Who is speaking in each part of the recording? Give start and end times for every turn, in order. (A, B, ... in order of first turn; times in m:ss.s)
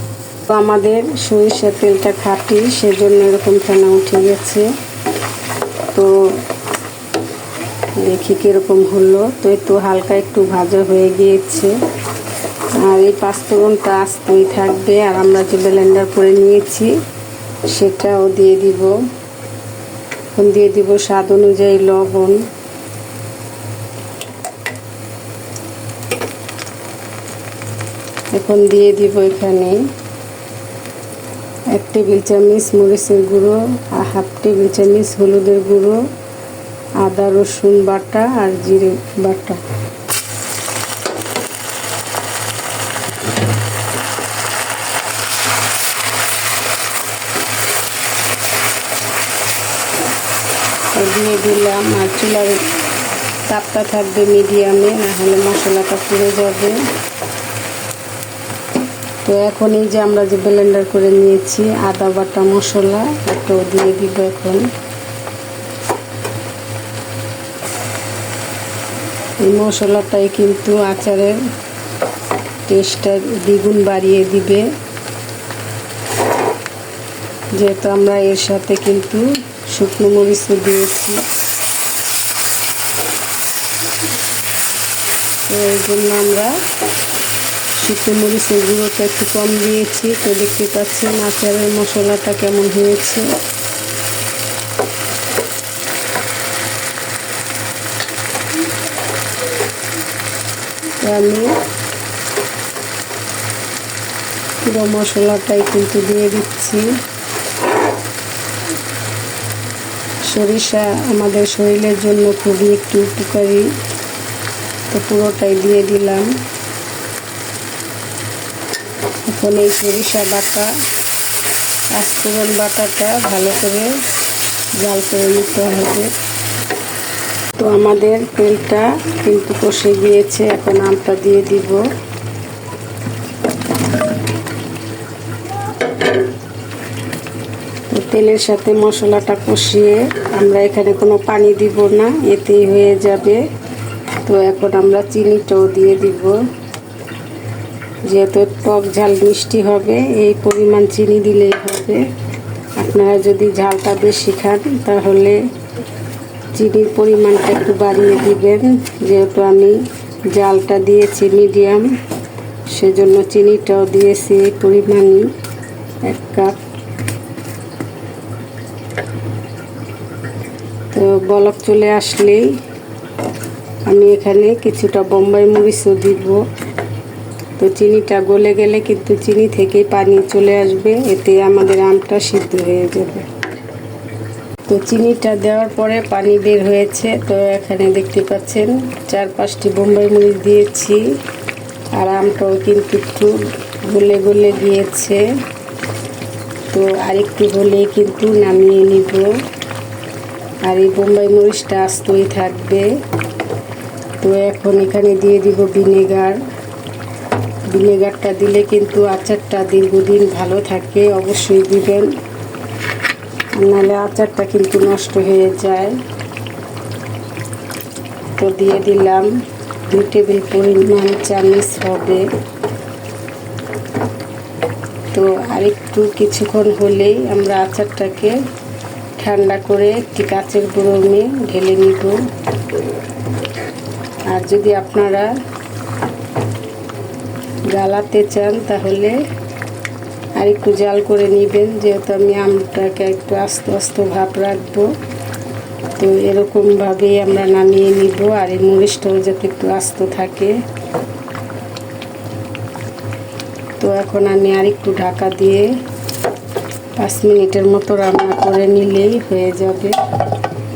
0:00.5-0:04.7 A
0:05.9-0:06.2 A
0:08.0-0:11.7 A
0:12.8-0:17.0 A
0:17.7-0:18.9 A
0:20.3-0:22.4 A
0:28.3-0:29.8 A
0:31.7-0:36.0 A
0:37.0-0:39.6 A
0:50.9-0:52.6 A
0:53.5-0:56.8 A
0:59.2-1:04.6 A
1:09.4-1:11.4 A
1:12.7-1:14.6 A
1:17.5-1:21.2 A
1:25.5-1:26.6 A
1:27.8-1:33.3 A
1:41.0-1:41.5 A
1:44.6-1:46.9 A
1:50.2-1:53.7 A
1:54.9-1:56.3 A
1:59.3-2:00.7 A
2:01.9-2:03.9 A
2:04.8-2:06.1 A
2:07.6-2:11.8 A
2:17.9-2:23.4 A
2:24.2-2:26.4 A
2:28.1-2:32.0 A
2:32.8-2:35.4 A
2:36.5-2:39.8 A
2:40.3-2:41.9 A
2:42.7-2:45.3 A
2:46.0-2:46.6 A
2:50.9-2:52.6 A
2:53.8-2:56.4 A
2:57.6-3:03.2 A
3:04.7-3:11.0 A
3:11.9-3:15.2 A
3:16.7-3:19.3 A
3:20.6-3:22.9 A
3:24.2-3:26.4 A
3:27.7-3:32.1 A
3:33.5-3:36.0 A
3:38.4-3:39.3 A
3:39.9-3:42.2 A
3:45.1-3:48.4 A
3:49.2-3:52.2 A
3:54.3-3:55.3 A
3:57.7-3:59.2 A
4:00.4-4:04.9 A
4:06.0-4:10.6 A
4:13.8-4:15.7 A
4:17.0-4:20.0 A